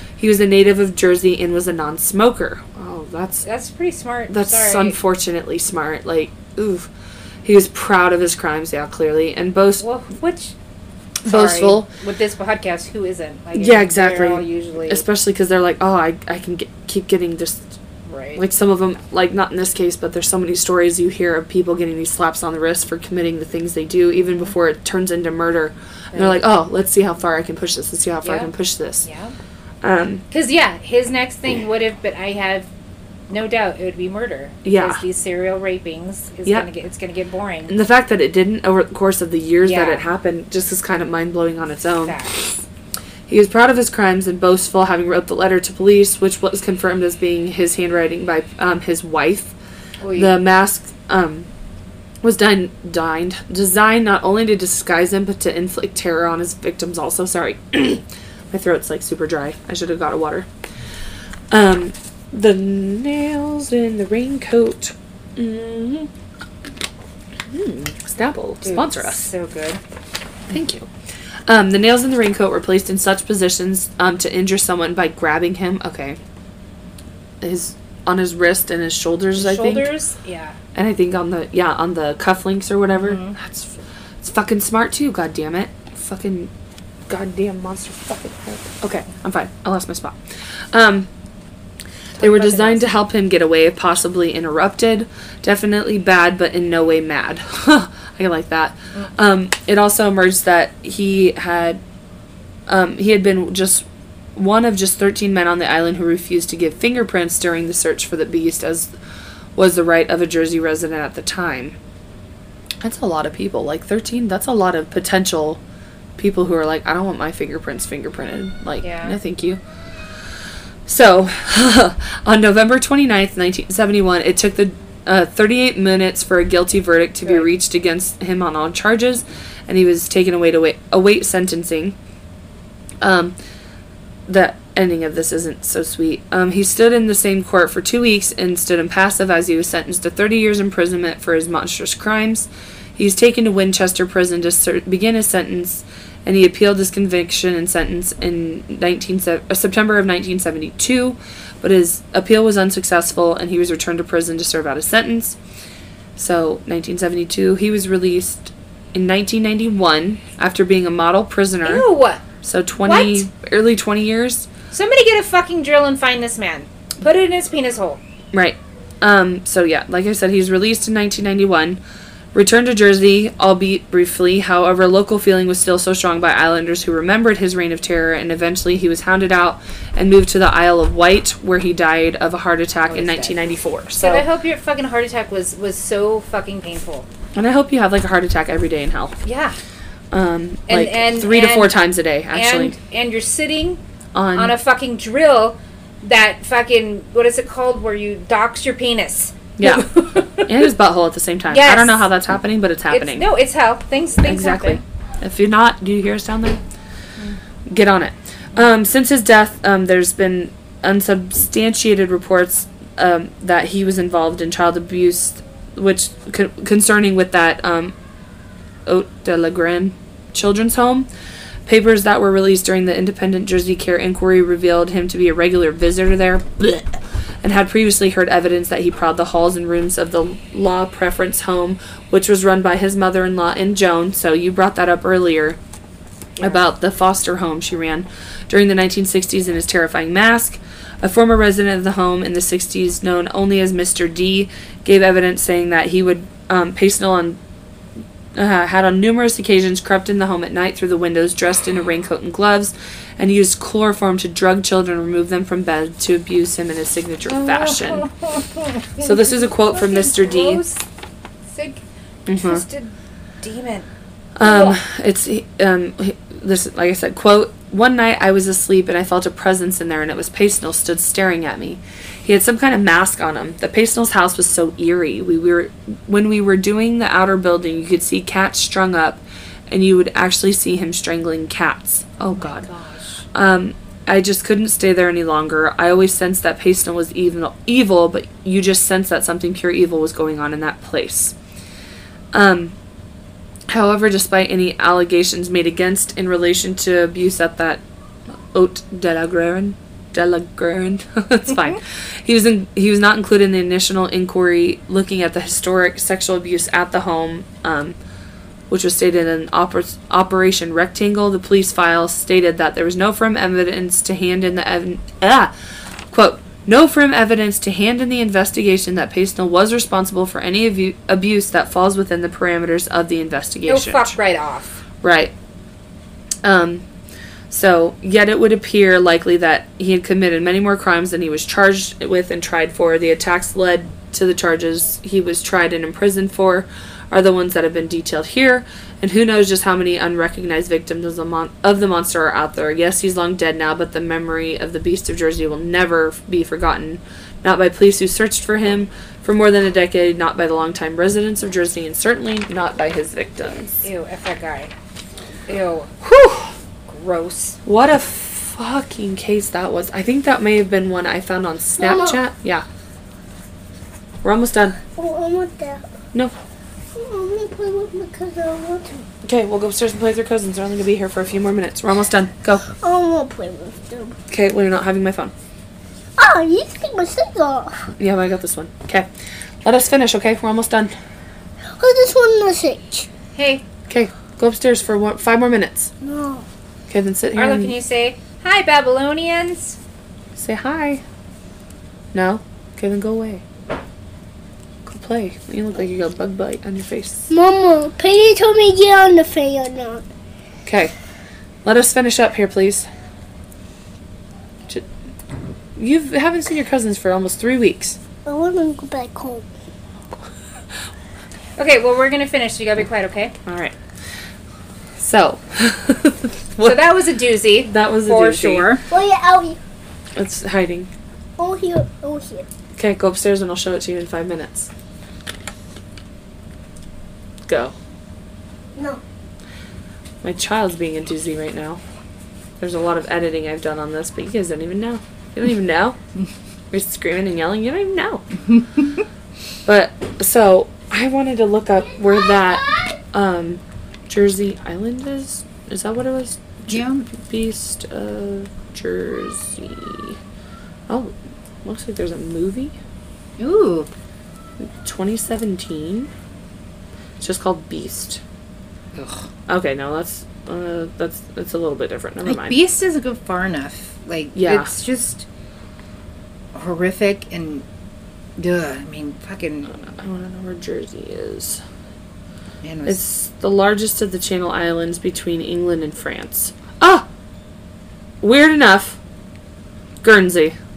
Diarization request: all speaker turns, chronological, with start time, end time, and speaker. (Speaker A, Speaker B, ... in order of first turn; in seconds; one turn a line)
Speaker A: 0.2-3.5
Speaker B: 3.4-5.0
Speaker A: 4.3-6.9
Speaker A: 7.4-9.8
Speaker B: 9.8-10.6
Speaker A: 11.2-11.9
Speaker B: 11.2-15.0
Speaker A: 13.5-17.8
Speaker B: 18.0-18.4
Speaker A: 18.3-29.1
Speaker B: 26.1-26.4
Speaker B: 28.2-28.5
Speaker B: 29.0-29.3
Speaker A: 29.8-30.2
Speaker B: 30.3-32.7
Speaker B: 33.3-37.7
Speaker A: 34.6-35.0
Speaker A: 37.7-42.2
Speaker B: 39.6-40.0
Speaker B: 42.0-42.4
Speaker A: 43.3-49.5
Speaker B: 50.0-50.3
Speaker A: 50.1-51.5
Speaker A: 52.2-60.5
Speaker A: 61.5-66.1
Speaker A: 67.5-69.3
Speaker B: 68.6-69.8
Speaker A: 70.5-70.9
Speaker A: 71.5-76.2
Speaker A: 77.4-79.9
Speaker B: 79.4-80.6
Speaker A: 80.7-86.5
Speaker B: 83.0-83.4
Speaker A: 87.1-91.1
Speaker B: 92.2-92.9
Speaker A: 92.2-101.8
Speaker A: 102.7-108.9
Speaker A: 109.5-111.8
Speaker A: 112.8-115.6
Speaker A: 116.2-119.6
Speaker B: 118.8-119.2
Speaker A: 120.9-131.9
Speaker B: 127.2-127.5
Speaker A: 133.0-133.3
Speaker A: 134.3-155.4
Speaker A: 156.2-161.9
Speaker B: 161.6-162.2
Speaker A: 162.4-164.5
Speaker B: 162.8-163.3
Speaker B: 164.7-168.0
Speaker A: 168.3-171.8
Speaker A: 172.3-184.2
Speaker B: 182.9-183.4
Speaker B: 184.0-187.1
Speaker A: 187.3-189.2
Speaker B: 189.2-189.6
Speaker A: 190.1-192.8
Speaker B: 190.7-191.8
Speaker B: 192.3-193.8
Speaker A: 194.1-194.5
Speaker B: 194.3-200.6
Speaker A: 199.6-203.2
Speaker B: 201.5-202.1
Speaker B: 202.9-204.8
Speaker A: 204.2-206.6
Speaker A: 207.7-217.9
Speaker A: 218.9-221.1
Speaker A: 221.7-235.6
Speaker B: 236.4-236.6
Speaker A: 236.4-247.4
Speaker A: 248.3-258.1
Speaker B: 257.3-260.9
Speaker A: 259.0-260.6
Speaker B: 261.4-261.8
Speaker A: 262.3-262.6
Speaker B: 262.3-263.9
Speaker A: 264.4-282.7
Speaker B: 264.4-264.8
Speaker B: 282.3-283.2
Speaker A: 283.3-291.3
Speaker A: 292.3-292.7
Speaker A: 293.7-297.8
Speaker A: 298.5-308.0
Speaker A: 308.7-315.5
Speaker A: 316.1-324.1
Speaker B: 323.6-324.8
Speaker A: 325.0-325.3
Speaker A: 326.4-326.8
Speaker A: 327.5-353.9
Speaker B: 353.8-354.7
Speaker B: 355.5-355.9
Speaker A: 356.0-356.5
Speaker B: 356.9-357.6
Speaker A: 357.6-362.6
Speaker C: 361.8-362.2
Speaker A: 364.2-364.8
Speaker C: 364.9-365.9
Speaker C: 366.9-369.0
Speaker A: 369.2-372.7
Speaker C: 372.7-374.2
Speaker A: 374.3-375.3
Speaker C: 376.2-377.9
Speaker A: 378.0-379.1
Speaker A: 379.6-380.9
Speaker C: 381.7-383.1
Speaker B: 383.3-383.6
Speaker A: 383.9-385.9
Speaker C: 386.0-386.4
Speaker A: 386.9-387.8
Speaker B: 387.3-389.8
Speaker A: 390.4-391.0
Speaker A: 392.1-393.4
Speaker A: 394.9-397.3
Speaker C: 397.3-400.1
Speaker A: 400.6-400.9
Speaker A: 401.6-402.9
Speaker A: 405.8-408.0
Speaker C: 408.2-409.5
Speaker B: 411.6-413.3
Speaker A: 413.4-413.8
Speaker A: 415.0-416.9
Speaker B: 416.6-418.8
Speaker A: 417.6-418.7
Speaker C: 418.9-419.6
Speaker A: 420.1-420.9
Speaker C: 421.4-422.5
Speaker A: 422.8-424.7
Speaker A: 427.5-427.7
Speaker C: 428.8-429.0
Speaker A: 430.2-431.8
Speaker A: 432.6-436.0
Speaker A: 436.7-438.2
Speaker B: 438.5-439.0
Speaker A: 439.6-450.2
Speaker B: 446.7-447.1
Speaker A: 450.9-452.8
Speaker B: 453.4-453.9
Speaker A: 454.6-456.1
Speaker A: 457.2-458.2
Speaker B: 458.9-459.2
Speaker A: 459.5-462.6
Speaker B: 462.2-465.2
Speaker A: 464.3-464.8
Speaker B: 466.5-467.6
Speaker B: 468.4-469.9
Speaker A: 469.8-471.6
Speaker B: 472.6-473.0
Speaker A: 472.9-477.1
Speaker A: 478.2-479.0
Speaker A: 480.0-480.6